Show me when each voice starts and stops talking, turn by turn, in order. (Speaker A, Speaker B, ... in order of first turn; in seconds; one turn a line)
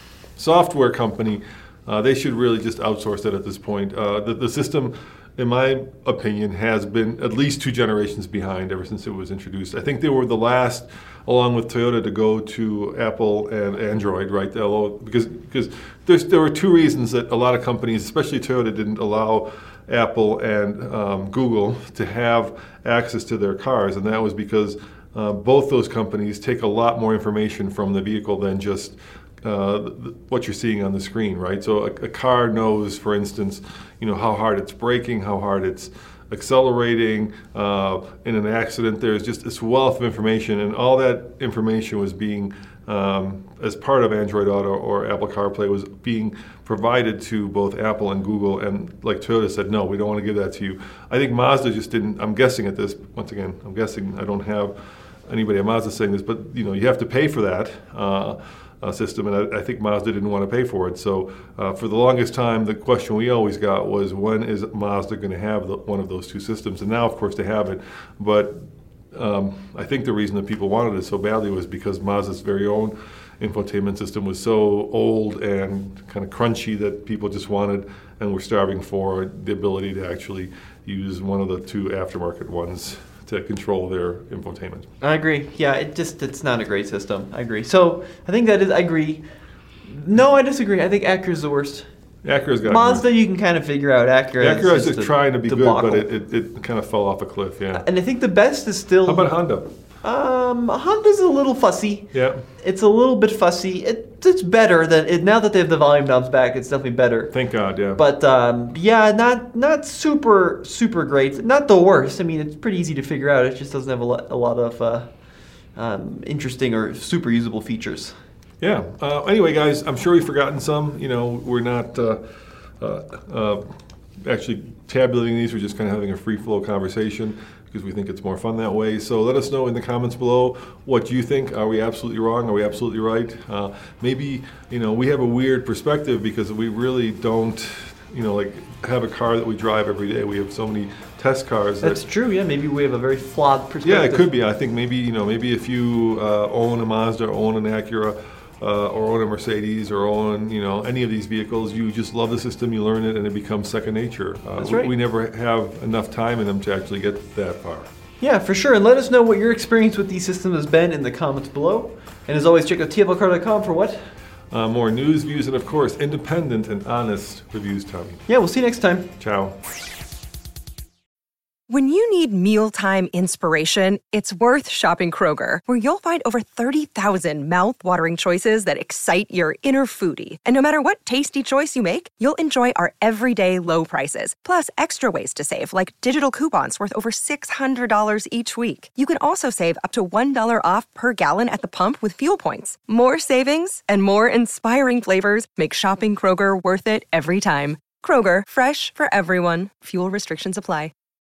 Speaker A: 0.4-54.7
Speaker A: 55.3-84.9
Speaker B: 85.0-89.2
Speaker B: 89.9-91.8
Speaker A: 92.2-93.0
Speaker B: 92.7-96.1
Speaker A: 94.4-97.8
Speaker B: 97.7-99.3
Speaker A: 99.0-99.7
Speaker B: 100.0-107.3
Speaker A: 102.1-102.4
Speaker A: 107.3-108.0
Speaker B: 108.0-115.1
Speaker B: 115.8-118.2
Speaker A: 118.6-122.2
Speaker A: 122.8-123.6
Speaker A: 124.2-142.0
Speaker B: 141.8-144.2
Speaker A: 143.8-157.9
Speaker B: 154.6-154.9
Speaker B: 158.2-164.0
Speaker A: 164.5-168.2
Speaker B: 168.3-169.1
Speaker A: 169.2-169.6
Speaker C: 171.7-200.9